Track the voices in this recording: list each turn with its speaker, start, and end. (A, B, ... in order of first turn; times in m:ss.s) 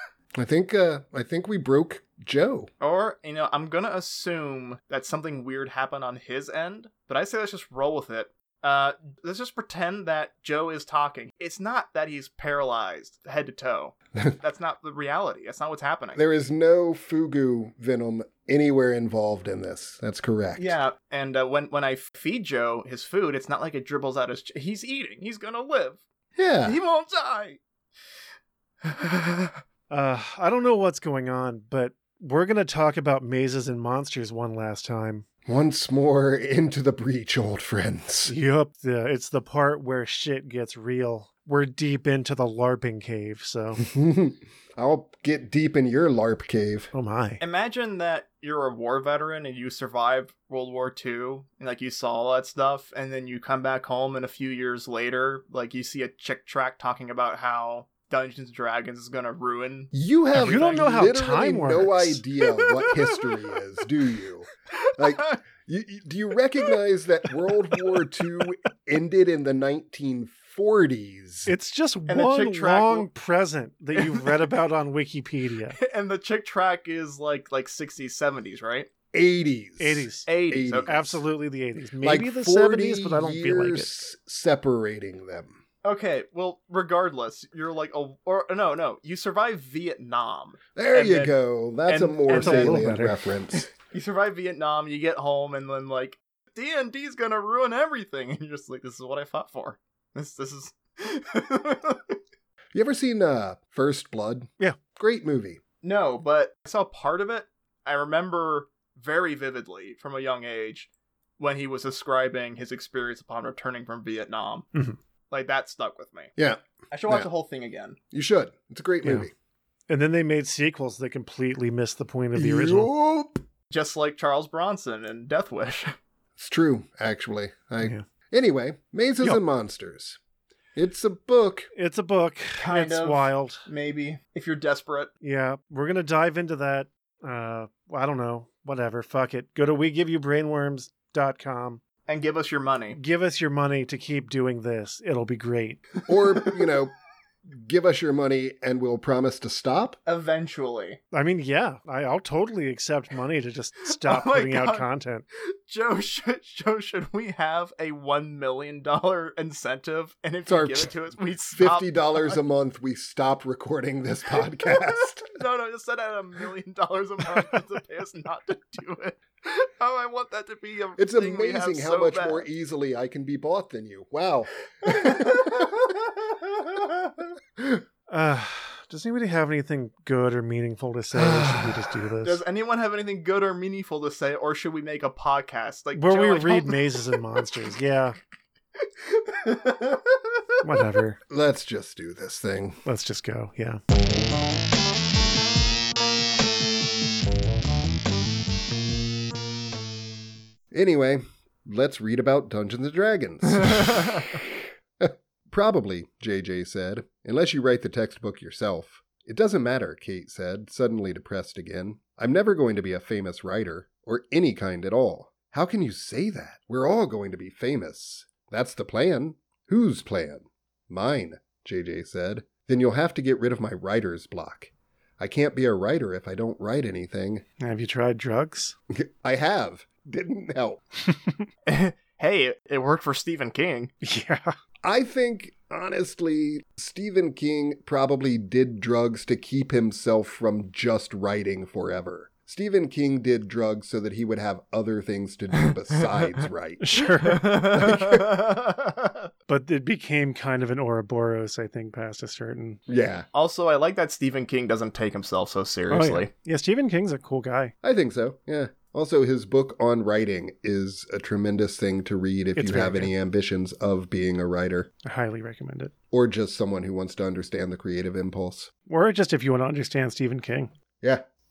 0:00.4-0:02.7 A
0:02.8-0:16.2 B
0:16.2-0:20.8 A
0:20.6-0:26.0 B
0:26.4-0:26.8 A
0:26.6-0:27.6 B
0:28.8-0:29.6 B
0:29.9-0:35.2 C
0:35.5-0:38.3 A
0:38.3-0:43.9 C
0:43.8-0:46.9 A
0:46.9-0:47.4 C
0:47.4-1:00.9 B
0:59.9-1:11.5 A
1:00.3-1:02.2 C
1:02.6-1:03.3 B
1:05.0-1:05.4 B
1:11.5-1:15.8 C
1:12.1-1:13.1 B
1:14.0-1:14.4 B
1:15.8-1:18.9 B
1:19.1-1:21.2 A
1:19.8-1:20.3 C
1:20.3-1:20.9 B
1:20.9-1:24.0 C
1:22.0-1:25.6 A
1:25.8-1:32.9 B
1:30.8-1:33.7 A
1:32.3-1:33.2 C
1:33.8-1:42.2 B
1:42.8-1:45.6 A
1:45.8-1:54.7 B
1:55.3-1:56.3 B
1:56.4-1:57.3 A
1:56.9-1:58.0 B
1:58.1-1:59.3 A
1:59.0-1:59.3 C
1:59.9-2:02.9 C
2:02.4-2:03.4 A
2:03.7-2:06.0 B
2:06.4-2:10.2 A
2:10.8-2:11.7 A
2:11.8-2:13.6 C
2:12.6-2:15.1 B
2:15.2-2:21.8 C
2:22.1-2:23.0 B
2:22.9-2:25.9 C
2:26.1-2:26.9 A
2:27.5-2:30.0 A
2:30.1-2:31.0 B
2:31.1-2:35.2 C
2:34.0-2:34.9 B
2:35.4-2:42.4 B
2:40.5-2:40.9 A
2:41.5-2:45.4 A
2:44.7-2:52.5 B
2:51.0-2:55.7 A
2:54.8-2:56.1 B
2:56.6-2:57.1 B
2:57.6-2:57.8 A
2:58.1-3:02.4 C
3:01.1-3:01.9 A
3:02.2-3:07.1 B
3:05.9-3:08.2 C
3:09.0-3:10.4 B
3:10.6-3:11.2 C
3:11.3-3:12.8 A
3:12.8-3:13.8 C
3:20.7-3:47.4 A
3:24.0-3:24.2 B
3:47.6-3:48.8 C
3:48.9-3:50.8 A
3:51.1-3:51.4 C
3:51.7-3:53.9 B
3:54.0-3:54.6 C
3:54.8-4:06.9 A
4:05.7-4:06.4 B
4:06.8-4:07.5 C
4:07.2-4:09.3 B
4:07.7-4:08.3 A
4:09.5-4:12.8 C
4:12.9-4:13.3 A
4:13.3-4:16.3 B
4:15.9-4:17.7 C
4:17.8-4:24.9 A
4:22.6-4:23.1 C
4:25.0-4:25.9 C
4:26.1-4:28.7 A
4:28.9-4:30.7 C